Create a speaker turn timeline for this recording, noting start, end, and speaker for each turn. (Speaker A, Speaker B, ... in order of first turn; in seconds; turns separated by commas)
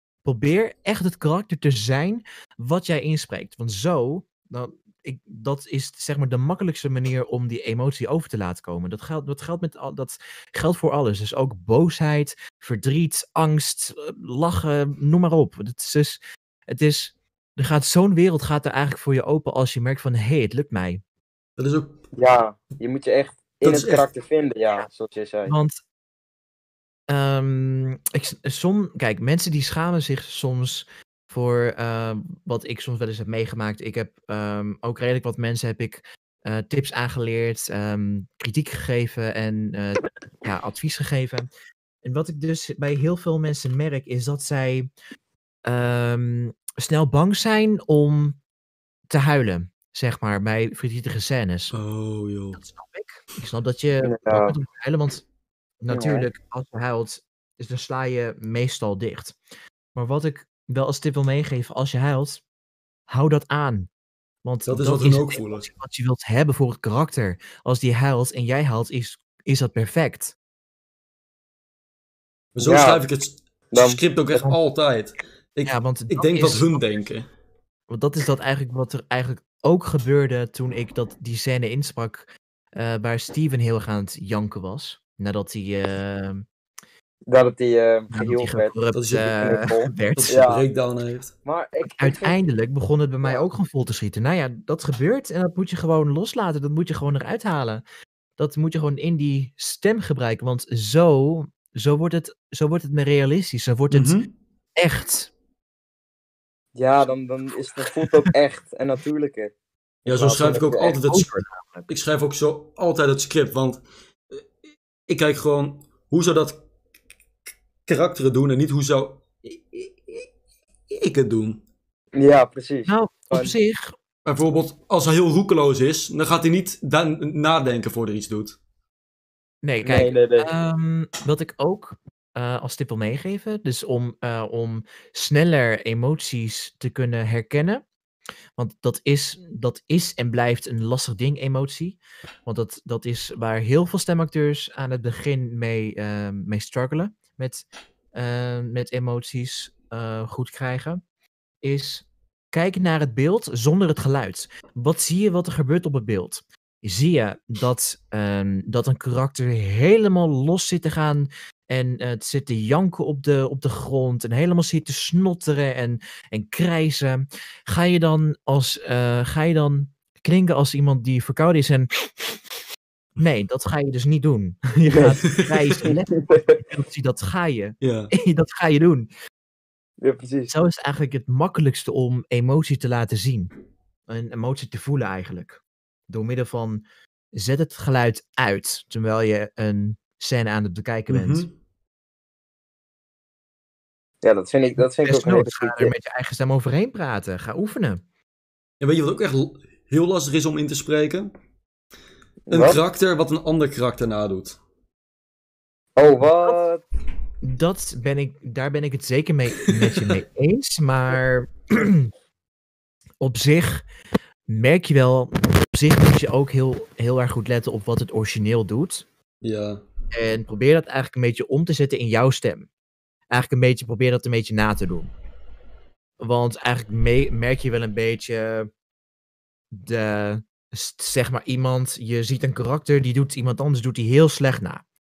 Speaker A: 0.2-21.0, Speaker B: 21.6-22.0, Speaker C: 22.1-25.5, Speaker B: 23.6-24.0, Speaker A: 25.4-25.8, Speaker A: 27.1-41.5, Speaker A: 42.0-44.9, Speaker A: 45.6-48.4, Speaker A: 49.1-51.7, Speaker B: 51.7-52.6, Speaker A: 52.5-55.2, Speaker C: 54.0-54.5, Speaker A: 55.8-59.4, Speaker C: 55.9-56.3, Speaker A: 59.9-62.4, Speaker A: 63.1-63.9, Speaker A: 64.4-70.3, Speaker B: 64.7-65.7, Speaker B: 72.5-77.3, Speaker C: 72.6-73.0, Speaker C: 73.7-74.0, Speaker A: 75.6-77.0, Speaker A: 77.9-86.5, Speaker C: 87.3-88.7, Speaker A: 88.1-90.4, Speaker B: 88.9-89.5, Speaker C: 89.4-90.6, Speaker B: 90.1-91.3, Speaker C: 91.4-92.4, Speaker A: 92.0-97.8, Speaker A: 98.4-105.3, Speaker B: 103.9-104.3, Speaker C: 106.8-109.5, Speaker C: 110.0-111.0, Speaker B: 110.0-111.3, Speaker A: 111.0-111.9, Speaker B: 111.9-114.4, Speaker B: 115.1-116.6, Speaker B: 117.8-120.2, Speaker B: 120.9-121.6, Speaker C: 122.1-123.5, Speaker A: 122.9-123.9, Speaker B: 124.2-128.6, Speaker A: 129.6-137.8, Speaker C: 129.8-130.5, Speaker A: 138.6-151.0, Speaker A: 151.6-172.4, Speaker A: 173.2-179.1, Speaker C: 174.9-175.2, Speaker C: 175.8-176.6, Speaker B: 177.8-178.1, Speaker C: 180.0-180.5, Speaker A: 180.5-183.5, Speaker A: 184.1-191.5, Speaker B: 191.1-191.5, Speaker C: 194.2-195.9, Speaker A: 194.8-198.0, Speaker B: 198.8-201.3, Speaker C: 202.5-202.8, Speaker B: 202.5-204.6, Speaker C: 206.0-206.8, Speaker A: 207.4-212.1, Speaker A: 213.2-213.9, Speaker A: 214.5-219.1, Speaker B: 219.4-219.8, Speaker A: 220.1-222.7, Speaker A: 223.3-225.1, Speaker A: 226.2-228.7, Speaker A: 229.7-234.8